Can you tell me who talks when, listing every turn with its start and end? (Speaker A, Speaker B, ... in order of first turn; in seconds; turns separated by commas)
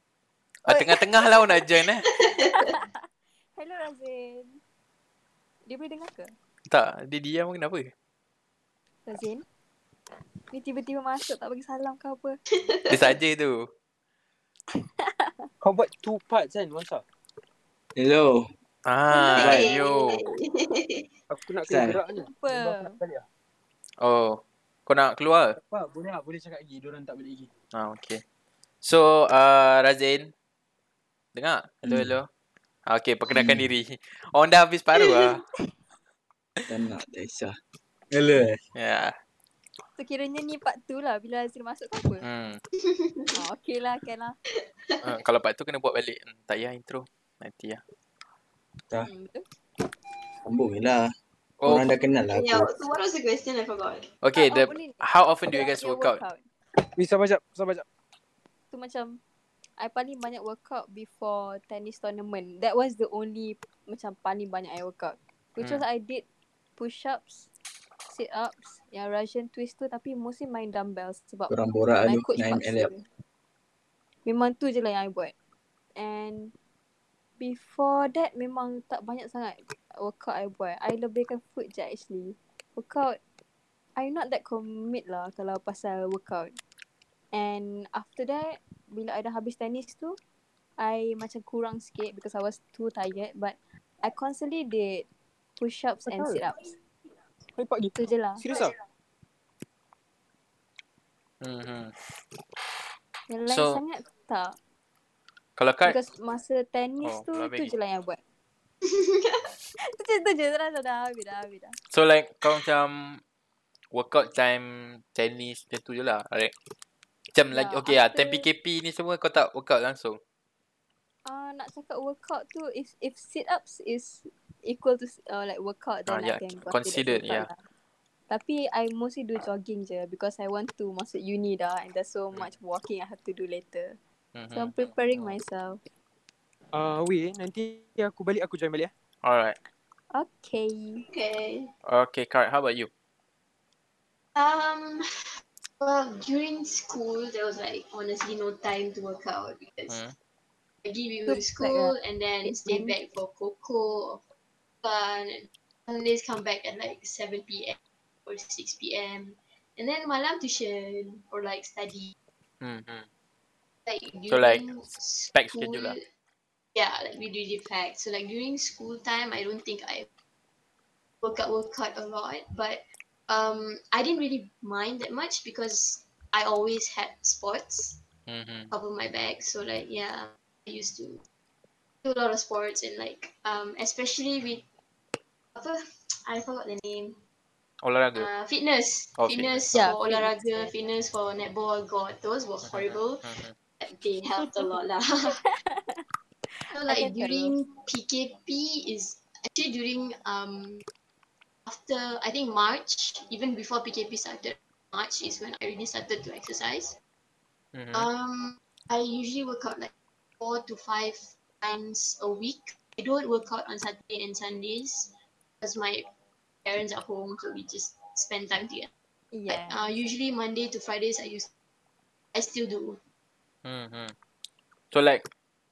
Speaker A: 0.7-2.1, Speaker B: 0.7-2.7, Speaker C: 2.4-4.6, Speaker C: 5.7-6.3, Speaker A: 6.7-7.9, Speaker C: 9.1-9.4, Speaker C: 10.5-12.4, Speaker B: 12.5-13.2, Speaker A: 12.9-13.7, Speaker C: 15.0-15.5, Speaker D: 15.6-17.1, Speaker E: 18.0-18.3, Speaker A: 18.9-20.3, Speaker B: 19.1-21.1, Speaker D: 21.3-23.3, Speaker E: 21.7-22.0, Speaker C: 22.2-23.0, Speaker A: 24.0-25.6, Speaker D: 25.6-27.5, Speaker A: 27.7-28.2, Speaker A: 28.8-30.3, Speaker A: 31.4-32.3, Speaker A: 32.9-35.4, Speaker E: 36.7-37.5, Speaker E: 38.1-38.5, Speaker A: 38.7-39.1, Speaker C: 40.0-42.3, Speaker A: 42.2-42.6, Speaker B: 42.8-43.4, Speaker C: 43.3-44.4, Speaker A: 45.0-47.8, Speaker C: 49.0-49.5, Speaker E: 50.5-51.1, Speaker A: 51.6-51.9, Speaker E: 51.7-52.6, Speaker B: 52.3-54.1, Speaker A: 54.2-56.2, Speaker C: 54.3-56.4, Speaker D: 56.8-57.9, Speaker C: 58.7-59.2, Speaker C: 59.8-66.2, Speaker C: 66.8-67.5, Speaker C: 68.1-73.0, Speaker E: 71.5-72.9, Speaker C: 74.2-75.3, Speaker C: 76.0-76.5, Speaker C: 77.4-83.2, Speaker C: 84.0-86.6, Speaker C: 87.3-90.2, Speaker C: 90.8-95.1, Speaker C: 95.6-96.7, Speaker D: 96.1-96.4, Speaker D: 97.5-98.7, Speaker C: 98.0-98.5, Speaker A: 101.4-102.0, Speaker C: 103.3-104.6, Speaker A: 103.5-103.8, Speaker A: 105.6-106.0, Speaker C: 105.8-108.2, Speaker A: 107.0-107.7, Speaker B: 108.8-109.4, Speaker C: 109.8-111.8, Speaker A: 111.9-113.2, Speaker A: 113.9-116.5, Speaker A: 117.3-120.2, Speaker C: 117.5-118.5, Speaker C: 121.2-127.6, Speaker A: 126.1-127.5, Speaker C: 128.3-134.0, Speaker A: 134.3-135.3, Speaker C: 134.5-135.8, Speaker D: 136.7-138.9, Speaker A: 139.2-139.6, Speaker C: 140.1-141.1, Speaker B: 141.1-141.7, Speaker A: 141.9-142.9, Speaker B: 144.3-145.0, Speaker B: 145.8-150.1, Speaker A: 149.9-150.1, Speaker B: 150.8-154.2, Speaker C: 151.3-153.0, Speaker B: 154.8-162.1, Speaker A: 162.6-163.1, Speaker B: 163.9-166.1, Speaker A: 164.3-166.0, Speaker B: 166.8-170.1, Speaker B: 171.2-178.0, Speaker A: 178.3-178.7, Speaker B: 178.7-181.2, Speaker B: 182.0-184.7, Speaker B: 185.6-187.2, Speaker A: 187.8-188.3, Speaker B: 188.2-195.4, Speaker A: 189.2-189.7, Speaker C: 189.7-190.7, Speaker A: 192.6-193.5, Speaker C: 194.4-194.8, Speaker C: 195.3-197.5, Speaker B: 196.7-200.8, Speaker B: 201.7-207.0, Speaker A: 207.7-208.1, Speaker B: 207.9-216.1, Speaker B: 216.7-218.9, Speaker C: 219.3-219.9, Speaker B: 219.5-221.5, Speaker B: 222.3-223.0, Speaker A: 223.6-224.1, Speaker A: 224.9-225.3